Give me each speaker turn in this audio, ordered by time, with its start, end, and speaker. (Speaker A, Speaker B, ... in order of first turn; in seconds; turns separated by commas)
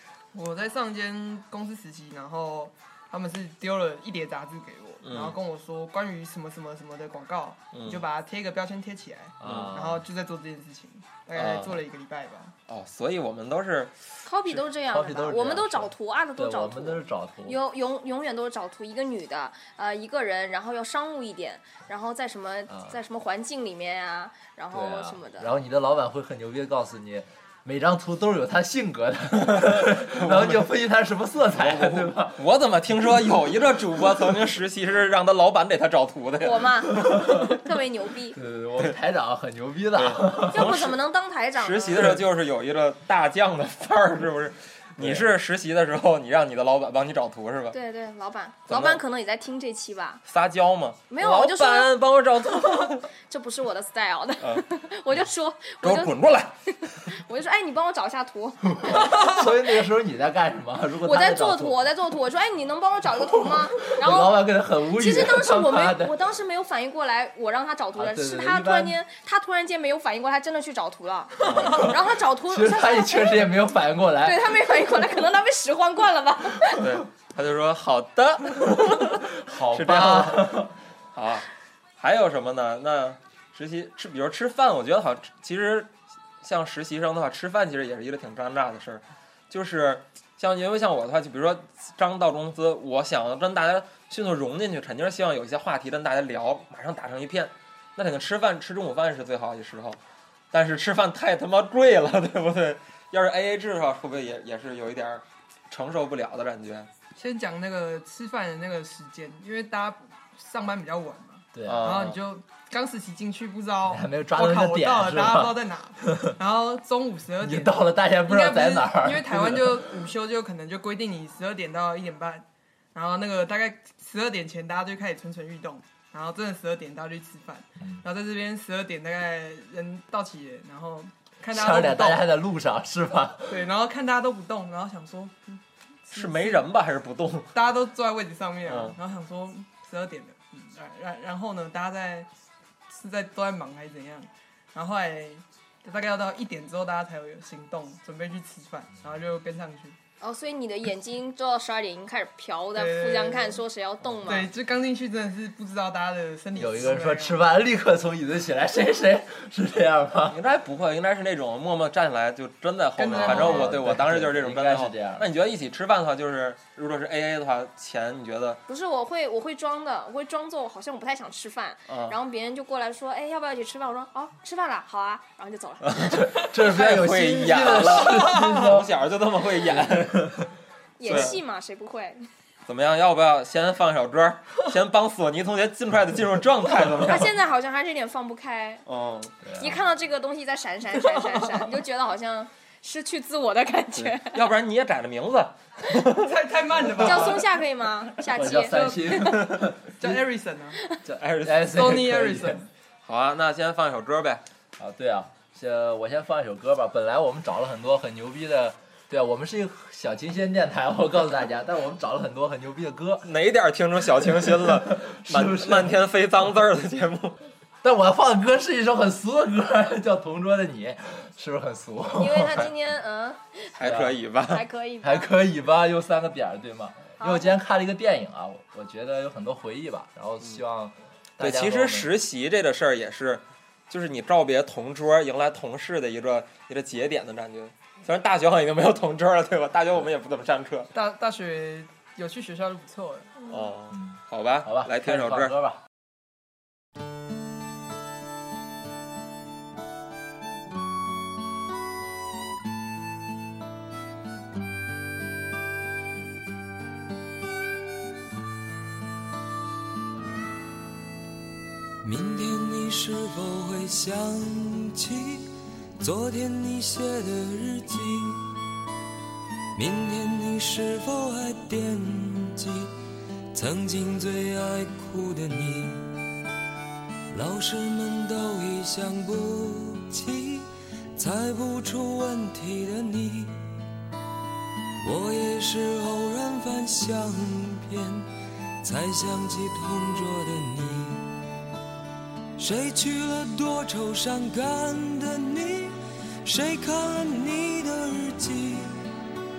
Speaker A: 0.3-12.6, Speaker B: 5.0-5.4, Speaker B: 7.7-8.0, Speaker C: 9.4-10.0, Speaker B: 9.4-9.8, Speaker B: 11.3-11.8, Speaker B: 12.7-13.9, Speaker D: 14.2-25.5, Speaker C: 14.8-17.6, Speaker C: 22.7-23.0, Speaker C: 24.7-32.4, Speaker B: 29.6-30.7, Speaker B: 31.5-37.4, Speaker D: 36.4-38.4, Speaker C: 38.3-40.8, Speaker B: 40.0-41.0, Speaker D: 40.5-42.1, Speaker B: 41.5-47.8, Speaker C: 45.0-45.3, Speaker D: 47.7-50.2, Speaker B: 48.7-49.0, Speaker B: 50.3-53.1, Speaker D: 51.1-52.0, Speaker D: 53.1-56.2, Speaker B: 55.8-56.5, Speaker D: 56.7-59.5, Speaker C: 58.8-61.8, Speaker D: 61.0-73.5, Speaker C: 63.9-66.2, Speaker C: 68.0-69.0, Speaker B: 71.4-71.9, Speaker C: 72.5-74.9, Speaker D: 74.2-76.8, Speaker B: 76.8-80.6, Speaker C: 79.4-80.7, Speaker B: 81.1-81.5, Speaker B: 82.0-100.0, Speaker B: 100.5-106.9, Speaker A: 107.2-132.3, Speaker C: 111.5-112.1, Speaker B: 111.7-112.2, Speaker C: 113.9-116.3, Speaker C: 117.4-119.9, Speaker C: 131.5-133.6, Speaker A: 133.5-136.7, Speaker B: 136.1-137.5, Speaker A: 137.5-142.3, Speaker B: 138.7-139.0, Speaker A: 142.9-150.0, Speaker D: 150.2-154.5, Speaker A: 152.7-153.6, Speaker A: 154.2-157.4, Speaker C: 156.6-160.4, Speaker B: 160.3-168.6, Speaker A: 163.0-163.8, Speaker C: 163.1-165.3, Speaker D: 168.7-176.0, Speaker B: 171.9-172.2, Speaker B: 175.9-180.3, Speaker C: 176.0-178.9, Speaker A: 178.0-178.6, Speaker C: 179.7-180.4, Speaker D: 181.0-182.2, Speaker B: 181.0-181.4, Speaker B: 182.7-187.3, Speaker D: 187.0-188.8, Speaker B: 188.9-189.3, Speaker C: 189.4-189.8, Speaker D: 189.6-194.4, Speaker B: 193.9-197.3, Speaker A: 196.2-197.5, Speaker D: 197.0-199.5, Speaker C: 198.2-200.2, Speaker A: 200.0-200.8, Speaker B: 201.1-201.9, Speaker C: 201.4-202.6, Speaker A: 201.7-202.7, Speaker B: 203.0-204.4, Speaker C: 204.8-213.3, Speaker B: 213.2-217.4, Speaker C: 214.2-216.0, Speaker C: 217.8-222.7, Speaker D: 222.2-223.8, Speaker B: 223.8-224.7, Speaker C: 223.8-224.2, Speaker D: 224.5-225.3, Speaker C: 225.0-232.1, Speaker D: 227.2-227.6, Speaker B: 231.4-240.9, Speaker A: 240.9-243.4, Speaker B: 243.5-245.5, Speaker C: 243.9-245.8, Speaker E: 262.0-265.5, Speaker E: 266.0-268.6, Speaker E: 269.8-272.9, Speaker E: 273.5-276.2, Speaker E: 277.3-283.7, Speaker E: 285.0-288.3, Speaker E: 288.8-291.4, Speaker E: 292.6-299.1